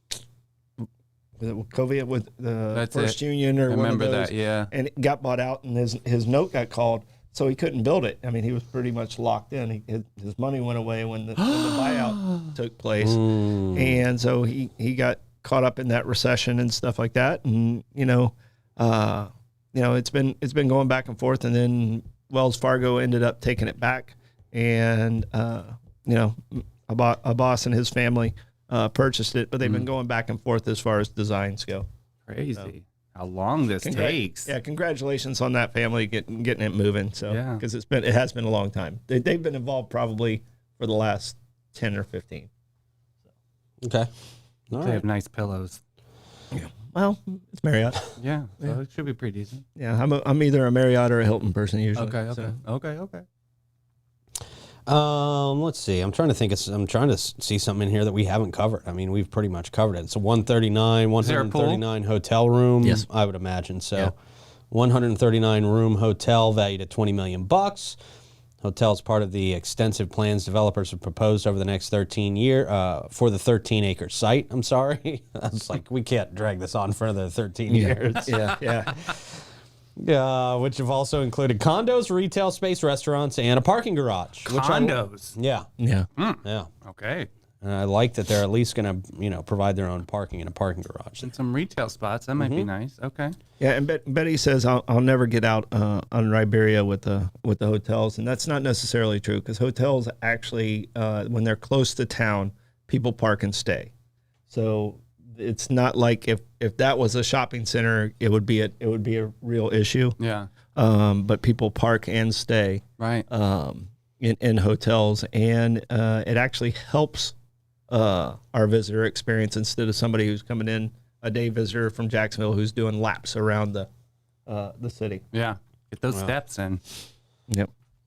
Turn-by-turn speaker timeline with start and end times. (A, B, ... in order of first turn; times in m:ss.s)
0:01.4-0:31.9 A
0:02.7-0:04.7 B
0:11.5-0:12.4 B
0:13.0-0:14.0 C
0:32.3-0:34.5 B
0:33.8-0:42.5 A
0:37.3-0:37.6 B
0:43.8-0:44.1 C
0:44.7-0:45.0 C
0:44.7-0:45.8 B
0:46.5-0:48.1 A
0:48.2-0:49.6 B
0:49.8-0:52.5 A
0:52.0-0:53.2 B
0:54.9-1:04.1 C
1:01.2-1:01.8 B
1:04.7-1:08.0 C
1:08.6-1:19.2 C
1:17.7-1:19.0 A
1:20.0-1:25.7 C
1:24.4-1:25.4 B
1:25.8-1:26.1 A
1:26.2-1:27.3 B
1:26.4-1:26.7 C
1:27.6-1:31.3 C
1:31.2-1:33.3 B
1:32.4-1:32.7 C
1:33.6-1:43.9 A
1:44.5-1:50.2 A
1:50.2-1:50.5 B
1:50.8-1:57.4 A
1:53.0-1:53.2 B
1:57.9-2:03.9 A
2:04.4-2:05.2 A
2:05.3-2:06.8 B